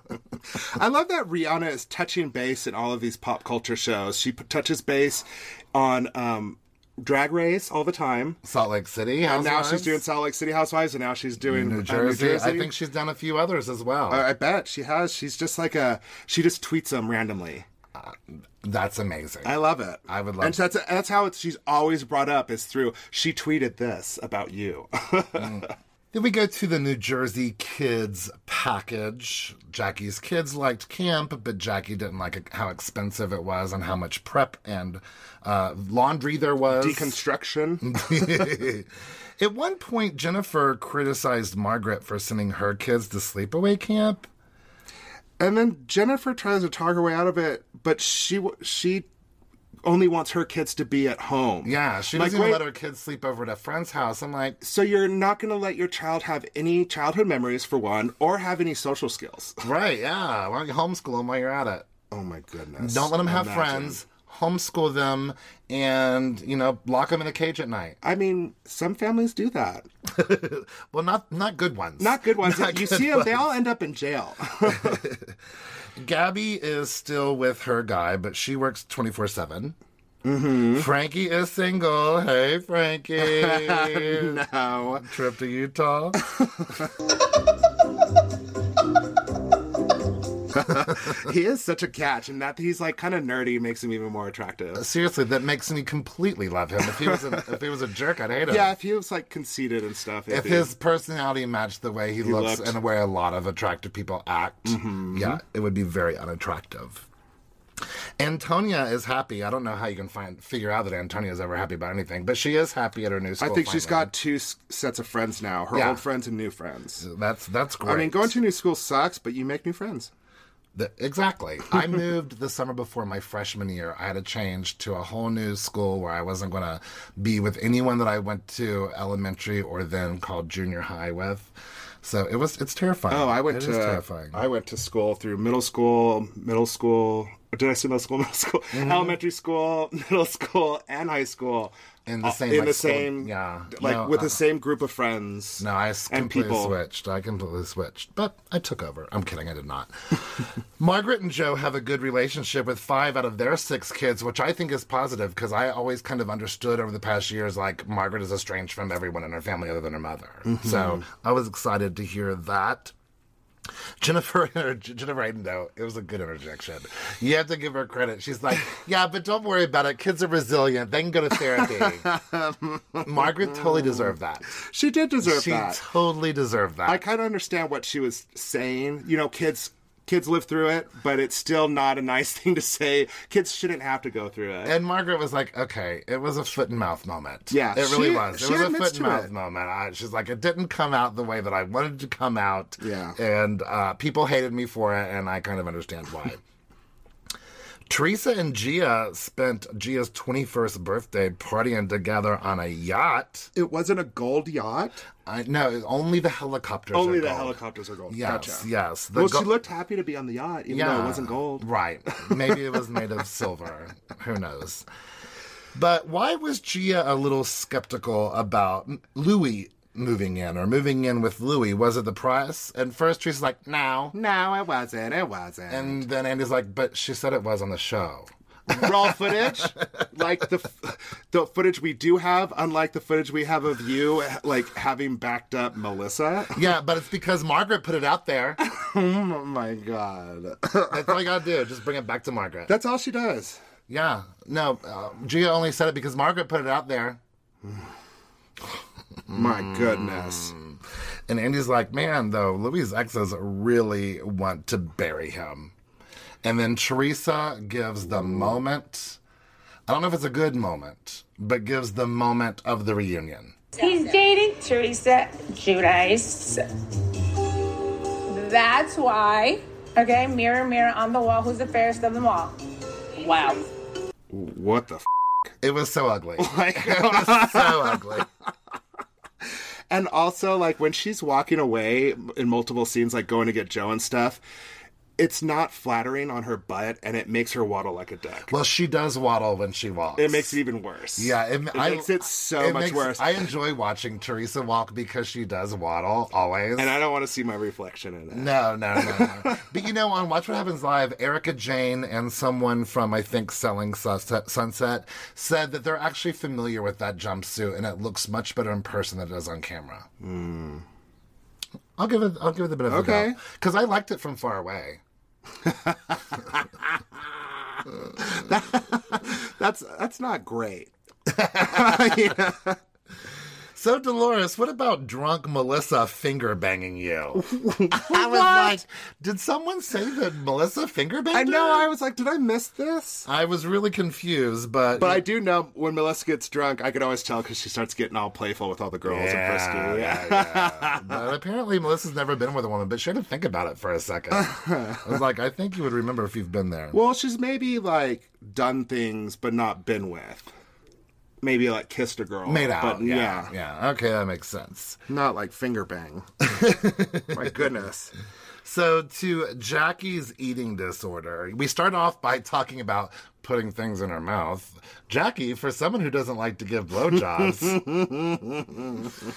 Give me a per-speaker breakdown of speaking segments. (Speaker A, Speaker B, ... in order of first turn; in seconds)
Speaker A: 0.6-8.4, 9.2-12.7, 14.1-17.7, 19.4-25.7, 36.7-38.2, 45.4-49.1, 49.8-52.6, 54.6-59.6, 62.1-64.0, 68.0-69.9, 72.0-75.0, 80.2-80.9, 83.2-85.1, 86.3-86.9, 90.5-94.8, 98.5-100.7, 102.2-102.8, 104.7-105.4, 113.4-117.0, 117.8-120.1, 133.1-146.8, 160.5-161.0, 171.6-175.8, 176.9-184.8, 187.5-189.3, 192.8-193.2, 203.6-205.1, 206.9-212.5, 224.1-226.1, 228.7-236.6, 238.6-241.2, 242.7-243.6, 249.3-250.5, 274.3-275.5, 276.4-278.2, 279.9-284.4, 285.2-288.5, 290.2-293.5, 296.8-299.7, 310.2-310.9, 312.9-313.4, 315.6-316.1, 318.1-320.9, 321.5-322.8, 327.4-328.8, 331.3-333.3, 335.0-341.2, 344.3-345.1, 346.9-350.5, 351.4-353.5, 355.1-356.3, 357.3-358.1, 367.7-368.4
Speaker B: 8.4-10.0, 11.4-14.3, 17.9-20.7, 25.4-37.2, 37.8-44.3, 51.6-54.6, 59.6-61.9, 62.8-68.0, 70.1-73.4, 74.7-75.4, 76.0-79.8, 80.7-84.4, 85.0-86.2, 94.8-98.7, 100.3-107.1, 108.2-114.1, 115.7-116.0, 117.0-118.4, 120.8-134.4, 138.7-139.2, 142.1-144.4, 145.6-162.9, 164.0-172.1, 173.0-174.5, 175.2-177.0, 184.7-196.4, 197.9-203.5, 205.3-209.5, 210.7-214.9, 215.7-224.2, 225.7-229.7, 236.5-238.6, 240.9-242.8, 243.9-247.2, 249.3-255.7, 256.4-259.2, 259.9-263.6, 275.6-278.3, 288.5-290.6, 291.2-297.0, 298.3-310.1, 312.0-315.0, 321.3-322.4, 323.8-331.9, 333.3-335.2, 339.1-347.0, 352.5-355.0, 356.4-357.6, 358.6-367.8
Speaker C: 263.8-266.6, 268.3-272.6, 273.1-273.7